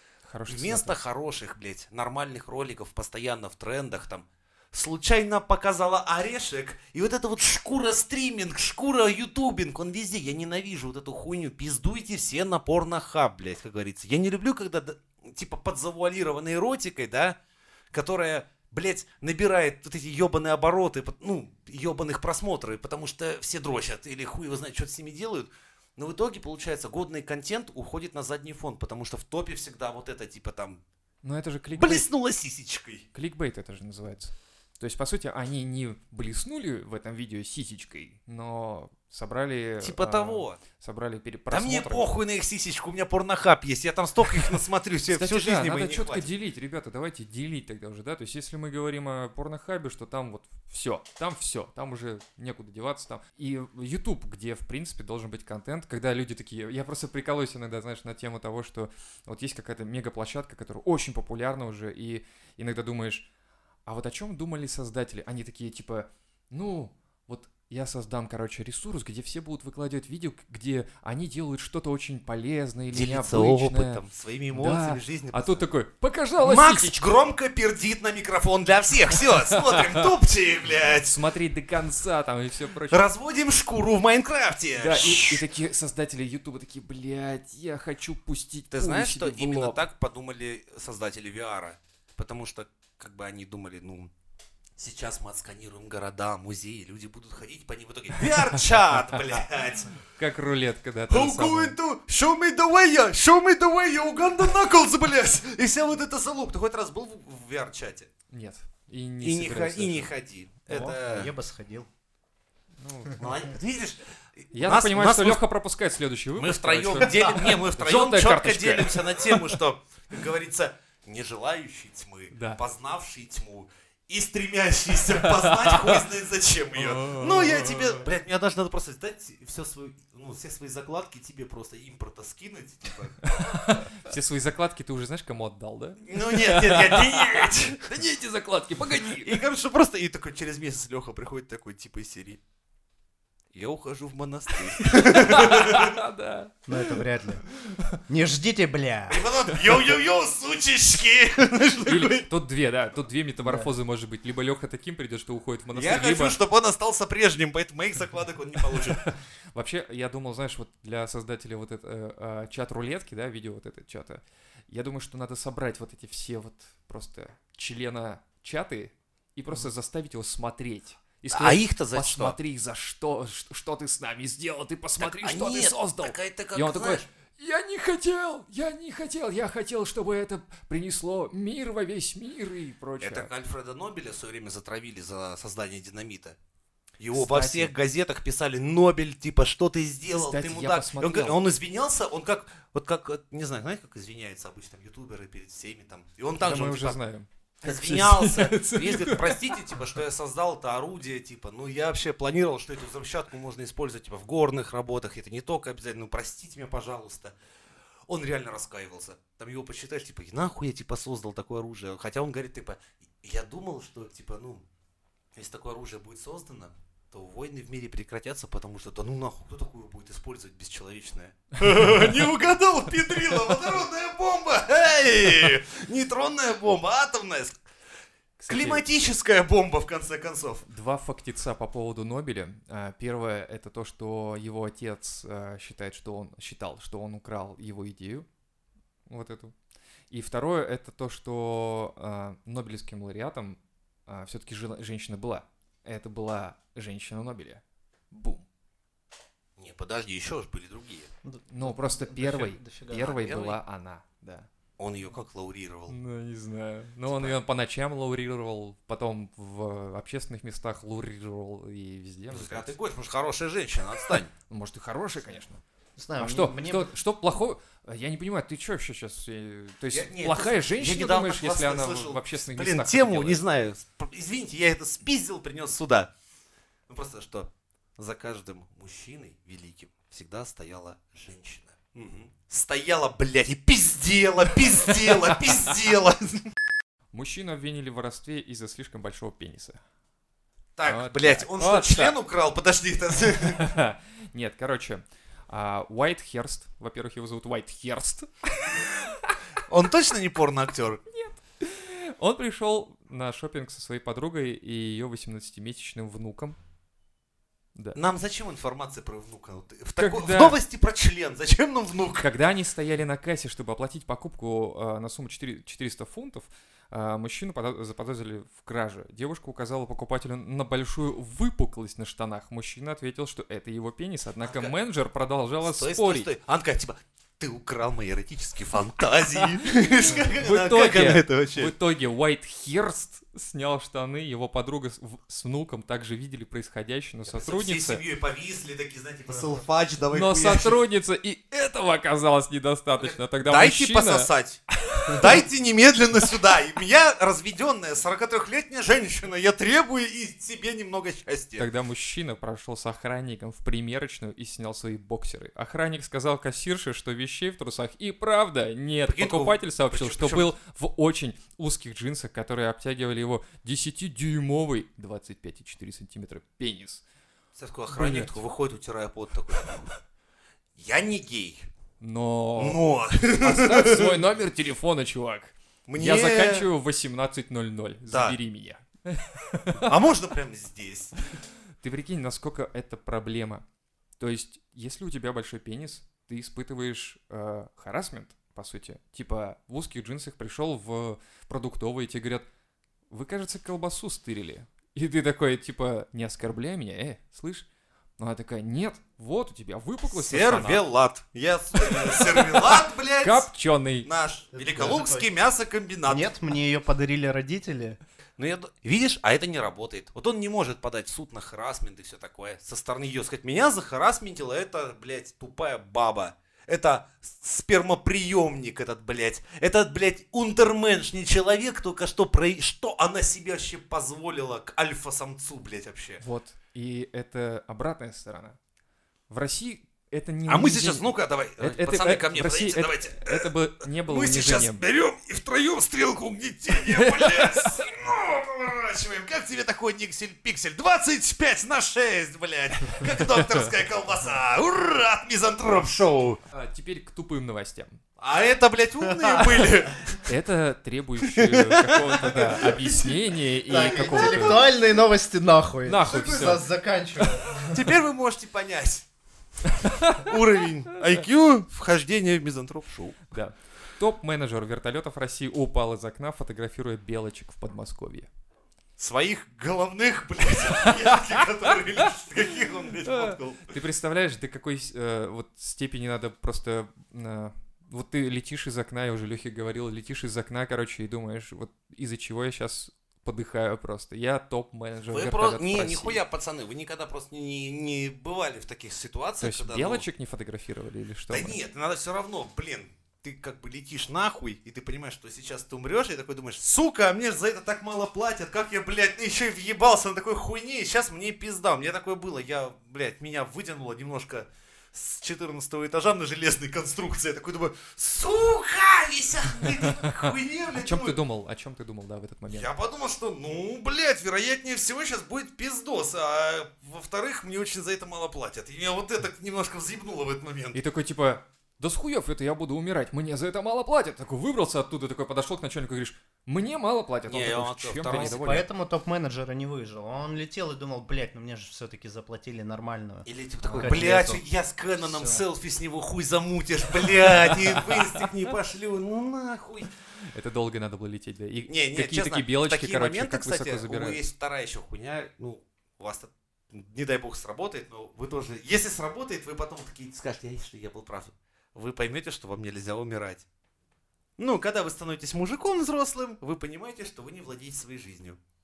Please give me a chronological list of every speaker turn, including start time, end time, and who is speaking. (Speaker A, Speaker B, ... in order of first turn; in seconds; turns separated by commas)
Speaker A: 0.2-0.9, Speaker B: 0.5-17.4, Speaker B: 17.9-30.8, Speaker A: 31.2-32.0, Speaker B: 31.8-33.0, Speaker A: 33.1-42.1, Speaker B: 39.8-40.6, Speaker B: 41.5-46.3, Speaker A: 45.1-63.3, Speaker A: 63.9-74.0, Speaker B: 72.9-75.7, Speaker A: 74.5-77.0, Speaker B: 76.4-81.2, Speaker A: 79.5-80.0, Speaker A: 81.0-83.0, Speaker B: 82.9-85.4, Speaker A: 84.8-89.8, Speaker B: 88.7-94.1, Speaker B: 94.8-100.0, Speaker A: 100.2-101.8, Speaker B: 101.1-108.1, Speaker A: 108.3-110.1, Speaker B: 109.2-111.3, Speaker C: 110.7-111.9, Speaker A: 112.8-113.2, Speaker B: 113.2-115.4, Speaker A: 114.5-119.6, Speaker B: 116.4-133.2, Speaker A: 122.3-122.6, Speaker A: 125.2-126.0, Speaker A: 126.8-128.0, Speaker A: 133.2-139.4, Speaker B: 136.0-137.9, Speaker B: 138.8-142.4, Speaker B: 143.5-146.0, Speaker A: 144.8-147.0, Speaker C: 146.7-147.4, Speaker A: 147.6-148.0, Speaker C: 148.1-149.2, Speaker B: 149.1-152.3, Speaker A: 151.8-156.4, Speaker C: 153.4-153.7, Speaker B: 155.7-159.1, Speaker A: 158.8-183.3, Speaker B: 171.3-172.3, Speaker B: 175.0-177.1, Speaker B: 183.0-186.3, Speaker B: 187.0-197.0, Speaker A: 187.1-187.7, Speaker A: 190.1-191.4, Speaker A: 196.4-199.8, Speaker B: 197.6-207.3, Speaker B: 208.1-214.6, Speaker B: 215.3-227.6, Speaker A: 228.4-228.8, Speaker B: 228.5-230.6, Speaker A: 230.7-238.3, Speaker A: 239.1-239.5, Speaker A: 240.1-248.4, Speaker B: 249.6-251.1, Speaker C: 251.2-253.2, Speaker A: 251.5-254.5, Speaker B: 252.9-253.6, Speaker B: 254.8-256.0, Speaker A: 255.9-262.7, Speaker B: 257.1-257.4, Speaker B: 262.3-264.3, Speaker A: 264.1-265.6, Speaker C: 266.0-266.9, Speaker A: 266.2-273.4, Speaker B: 269.9-276.1, Speaker B: 276.9-286.5, Speaker A: 287.1-289.8, Speaker B: 290.8-293.6, Speaker A: 290.9-292.1, Speaker A: 293.6-299.4, Speaker B: 299.7-301.0, Speaker A: 301.1-306.6, Speaker B: 307.9-312.3, Speaker A: 310.0-310.6, Speaker A: 312.2-326.3, Speaker B: 324.4-324.7, Speaker B: 325.6-331.7, Speaker A: 329.6-338.0, Speaker B: 337.3-340.8, Speaker A: 340.1-345.4, Speaker B: 343.0-351.7, Speaker A: 351.6-367.0, Speaker B: 359.1-360.5, Speaker B: 367.6-369.9, Speaker A: 367.9-368.4, Speaker B: 370.8-371.7, Speaker A: 372.0-372.8, Speaker B: 372.6-374.2, Speaker A: 373.4-379.9, Speaker B: 375.9-376.7, Speaker B: 378.1-378.4, Speaker B: 379.7-381.1, Speaker A: 381.8-383.6, Speaker A: 384.2-392.5, Speaker A: 393.1-397.7, Speaker A: 398.2-400.8, Speaker B: 400.1-403.5, Speaker A: 401.8-404.1, Speaker B: 404.0-406.3, Speaker C: 404.5-405.3, Speaker C: 406.1-408.0, Speaker B: 408.4-426.2, Speaker A: 426.2-428.6, Speaker A: 429.3-434.8, Speaker B: 430.5-433.5, Speaker B: 434.1-446.4, Speaker A: 436.9-437.8, Speaker A: 446.5-448.0, Speaker B: 448.2-450.2, Speaker A: 449.4-449.7, Speaker A: 450.2-454.7, Speaker B: 451.2-453.0, Speaker C: 453.6-457.8, Speaker A: 455.8-456.6, Speaker B: 457.6-459.1, Speaker A: 459.7-460.2, Speaker B: 460.0-463.3, Speaker A: 463.3-468.3, Speaker B: 469.0-473.8, Speaker A: 471.1-471.7, Speaker A: 473.1-486.2, Speaker B: 485.1-490.0, Speaker A: 489.4-491.6, Speaker B: 491.3-511.2, Speaker A: 509.6-512.7, Speaker B: 512.5-520.8, Speaker A: 520.7-528.6, Speaker B: 527.3-528.6, Speaker C: 528.0-534.4, Speaker B: 533.2-539.9, Speaker A: 533.6-534.0, Speaker C: 535.0-535.4, Speaker A: 537.3-538.3, Speaker A: 540.3-544.2, Speaker B: 541.7-553.4, Speaker B: 554.4-558.4